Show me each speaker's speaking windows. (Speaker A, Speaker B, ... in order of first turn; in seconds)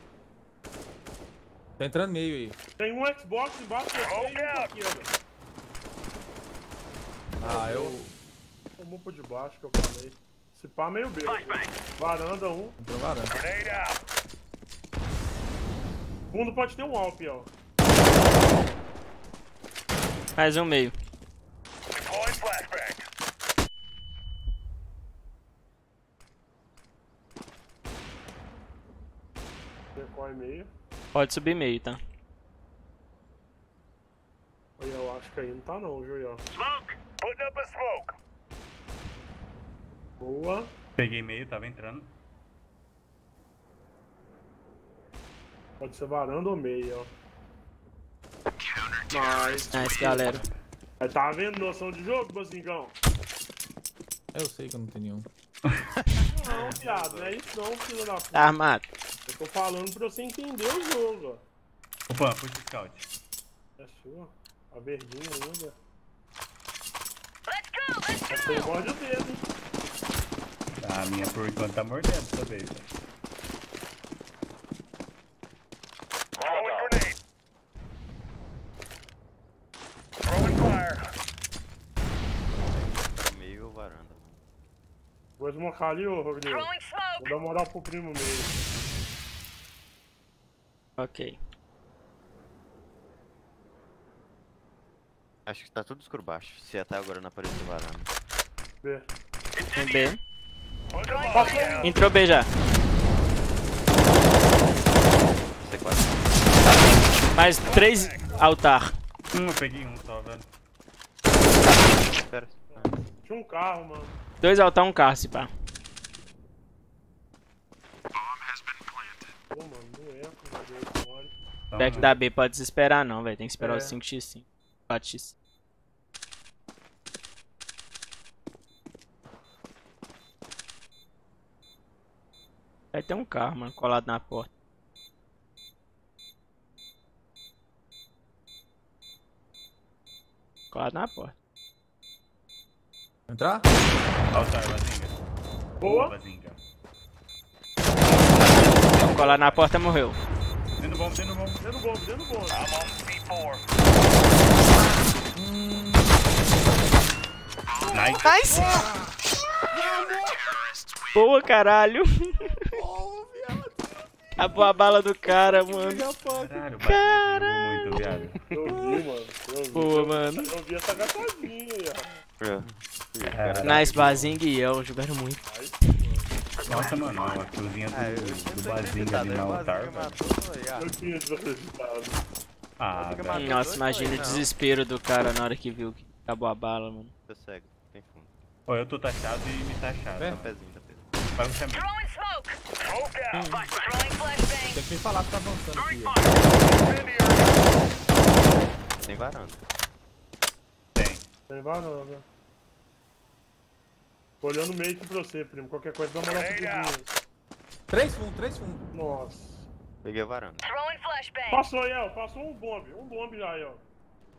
Speaker A: 1.8-2.6, 7.4-8.1, 12.8-13.4, 54.3-55.3, 143.3-143.7, 148.9-149.2, 155.3-156.2, 158.6-160.8, 162.7-164.7, 165.3-166.7, 168.7-169.0, 190.2-190.5, 194.7-197.5, 207.9-208.9
Speaker B: 2.8-5.1, 7.4-8.0, 8.8-12.8, 16.3-17.5, 29.9-30.7, 34.8-36.5, 40.2-40.7, 45.8-47.1, 49.1-50.3, 51.0-53.0, 56.4-58.6, 59.3-61.4, 63.8-65.8, 68.3-69.5, 85.4-88.6, 98.8-99.1, 101.3-101.9, 112.7-114.2, 119.5-121.3, 123.6-124.0, 145.8-146.1, 151.6-152.7, 157.9-159.1, 168.5-172.2, 175.4-176.4, 180.8-182.2, 201.5-202.2, 204.4-207.2, 208.9-209.7, 211.5-213.9
Speaker C: 20.4-20.9, 31.1-32.0, 49.7-50.4, 58.3-58.9, 91.0-91.4, 99.7-100.2, 101.8-102.5, 107.3-108.9, 114.4-115.5, 121.8-125.3, 132.9-134.5, 140.7-141.3, 148.5-150.2, 158.2-158.9, 161.2-162.2, 164.4-166.1, 166.8-168.0, 169.7-170.5, 173.6-175.4, 183.3-187.1, 193.3-193.7
Speaker D: 41.0-42.1, 50.1-50.6, 55.6-56.0, 62.1-63.1, 70.8-72.9, 109.3-110.5, 121.7-122.1, 144.3-145.2, 145.8-146.6, 150.8-151.6, 157.9-158.4, 166.3-168.4, 173.3-173.9, 176.7-180.2, 182.8-183.6, 188.7-190.5, 191.4-191.9, 200.9-201.3
Speaker E: 56.2-57.8, 82.7-84.4, 95.5-98.1, 105.5-106.3, 112.1-113.0, 172.4-174.4, 177.9-180.9, 182.9-184.5, 187.3-188.3, 190.2-191.1, 199.0-199.6, 210.0-210.7
Speaker F: 67.5-68.8, 86.4-87.4, 101.0-101.8, 191.7-192.6, 193.7-194.8, 210.6-211.7